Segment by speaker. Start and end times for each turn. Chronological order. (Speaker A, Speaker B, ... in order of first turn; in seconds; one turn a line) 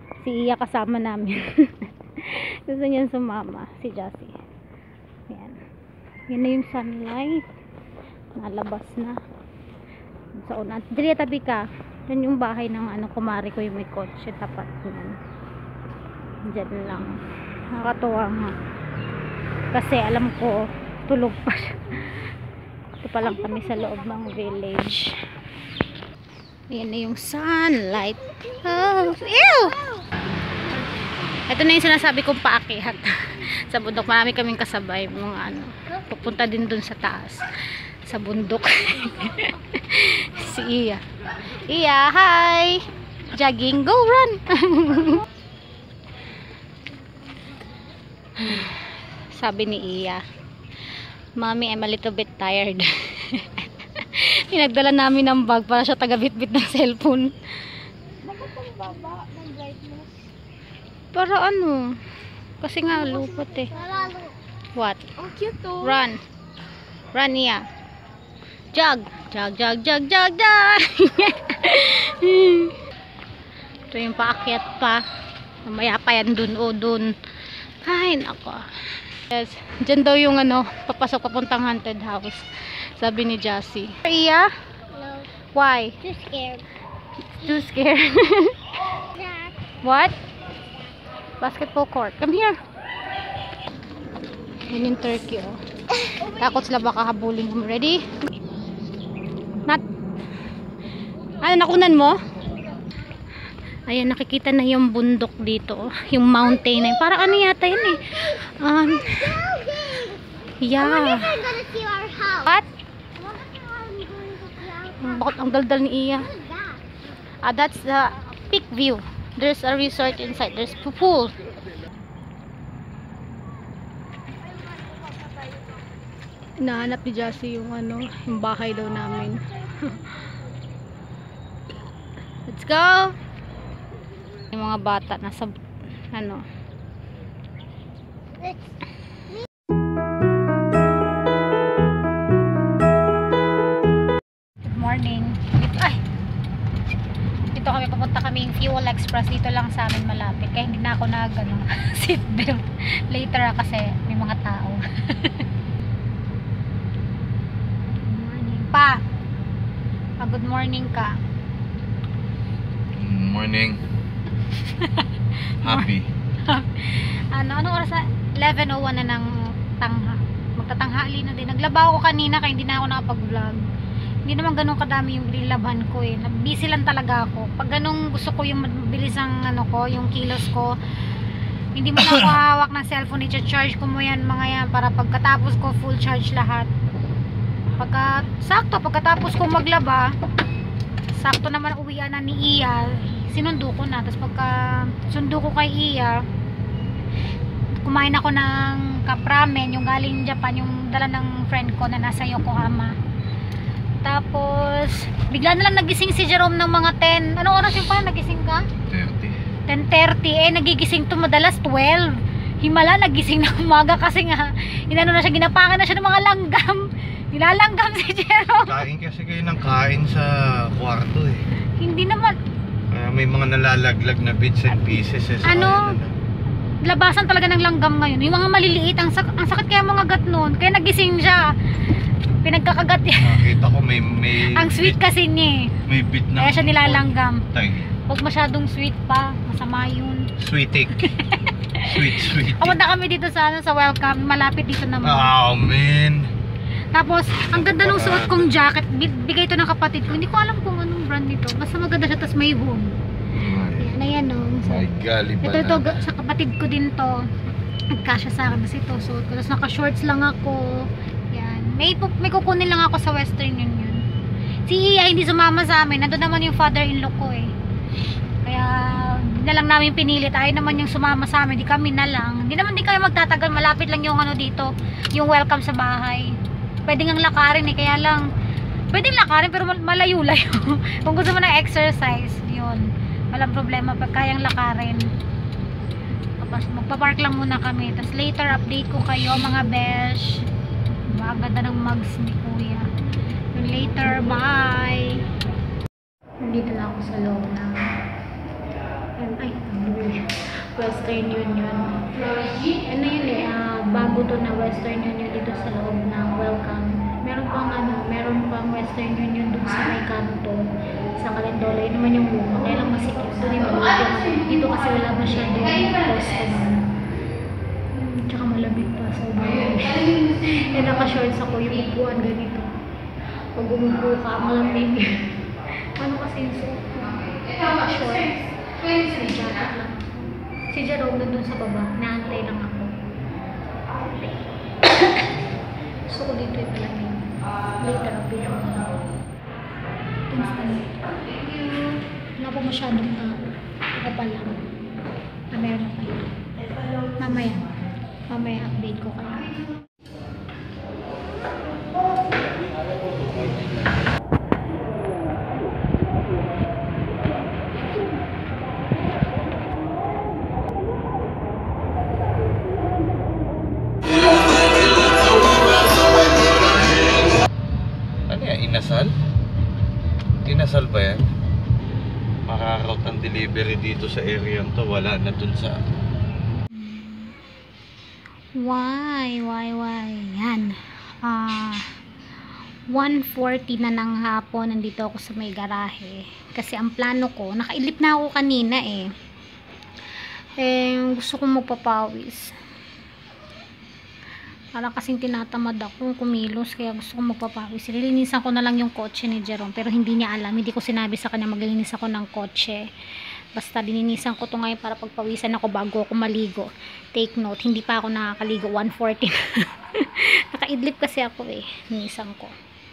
Speaker A: 0.2-4.3
Speaker A: 5.3-5.6
Speaker A: 6.3-7.5
Speaker A: 8.4-9.2
Speaker A: 10.4-15.2
Speaker A: 16.5-17.2
Speaker A: 17.7-18.6
Speaker A: 19.7-22.3
Speaker A: 23.0-25.2
Speaker A: 26.7-29.8
Speaker A: 31.5-37.5
Speaker A: 38.0-42.8
Speaker A: 43.3-45.3
Speaker A: 48.4-50.2
Speaker A: 51.4-57.7
Speaker A: 58.4-59.1
Speaker A: 61.1-61.9
Speaker A: 62.6-63.8
Speaker B: 63.8-64.3
Speaker A: 64.8-66.2
Speaker B: 65.3-65.6
Speaker A: 67.1-67.6
Speaker A: 68.7-72.8
Speaker A: 73.9-75.0
Speaker A: 75.7-77.2
Speaker A: 77.8-84.5
Speaker B: 84.9-85.3
Speaker A: 85.5-86.1
Speaker B: 86.0-86.7
Speaker A: 87.4-88.6
Speaker B: 89.2-89.6
Speaker A: 89.8-90.2
Speaker A: 91.4-92.6
Speaker A: 94.7-98.2
Speaker A: 101.4-102.2
Speaker A: 103.9-109.8
Speaker B: 109.3-110.2
Speaker A: 110.6-111.5
Speaker B: 110.8-112.5
Speaker A: 112.4-112.7
Speaker B: 113.2-115.1
Speaker A: 115.0-116.3
Speaker B: 116.3-116.8
Speaker A: 117.4-121.3
Speaker A: 126.6-130.3
Speaker A: 132.5-133.2
Speaker A: 134.5-135.6
Speaker A: 136.1-136.4
Speaker A: 144.6-146.0
Speaker A: 147.5-155.5
Speaker A: 158.1-159.0
Speaker A: 160.2-161.2
Speaker C: 162.9-163.8
Speaker A: 164.6-165.1
Speaker A: 165.6-165.9
Speaker C: 165.6-166.1
Speaker A: 166.4-173.6
Speaker A: 174.2-180.8
Speaker A: 181.8-186.7
Speaker A: 187.8-190.1
Speaker A: 191.2-196.2
Speaker A: 197.8-202.9
Speaker A: 204.0-208.6
Speaker C: 208.9-209.3
Speaker A: 209.7-218.8
Speaker C: 218.7-221.4
Speaker A: 221.8-222.4
Speaker C: 222.9-226.1
Speaker A: 225.4-225.9
Speaker A: 226.8-231.4
Speaker A: 232.4-233.6
Speaker C: 233.2-235.0
Speaker A: 234.4-235.7
Speaker C: 235.9-237.9
Speaker A: 236.4-237.4
Speaker A: 238.1-240.3
Speaker C: 240.4-241.1
Speaker A: 241.0-245.3
Speaker C: 241.8-242.8
Speaker C: 245.0-246.3
Speaker A: 246.9-252.9
Speaker C: 247.5-248.6
Speaker C: 253.3-253.9
Speaker A: 253.8-257.3
Speaker C: 254.6-256.0
Speaker A: 257.9-264.0
Speaker A: 264.7-267.5
Speaker A: 268.4-278.3
Speaker A: 278.9-285.1
Speaker A: 286.4-290.4
Speaker A: 291.1-292.9
Speaker A: 293.5-295.2
Speaker A: 296.4-297.8
Speaker A: 299.2-310.6
Speaker A: 311.2-316.8
Speaker A: 317.9-322.7
Speaker A: 323.6-325.3
Speaker A: 326.0-333.0
Speaker A: 334.8-335.5
Speaker A: 336.1-339.0
Speaker A: 340.3-343.5
Speaker A: 344.0-344.6
Speaker A: 345.5-346.3
Speaker A: 347.2-347.8
Speaker A: 348.3-349.6
Speaker C: 368.3-369.1
Speaker C: 370.4-371.3
Speaker C: 372.5-375.8
Speaker A: 376.7-377.4
Speaker A: 378.6-381.9
Speaker A: 382.9-389.1
Speaker A: 390.6-392.5
Speaker A: 394.8-402.9
Speaker A: 403.6-412.5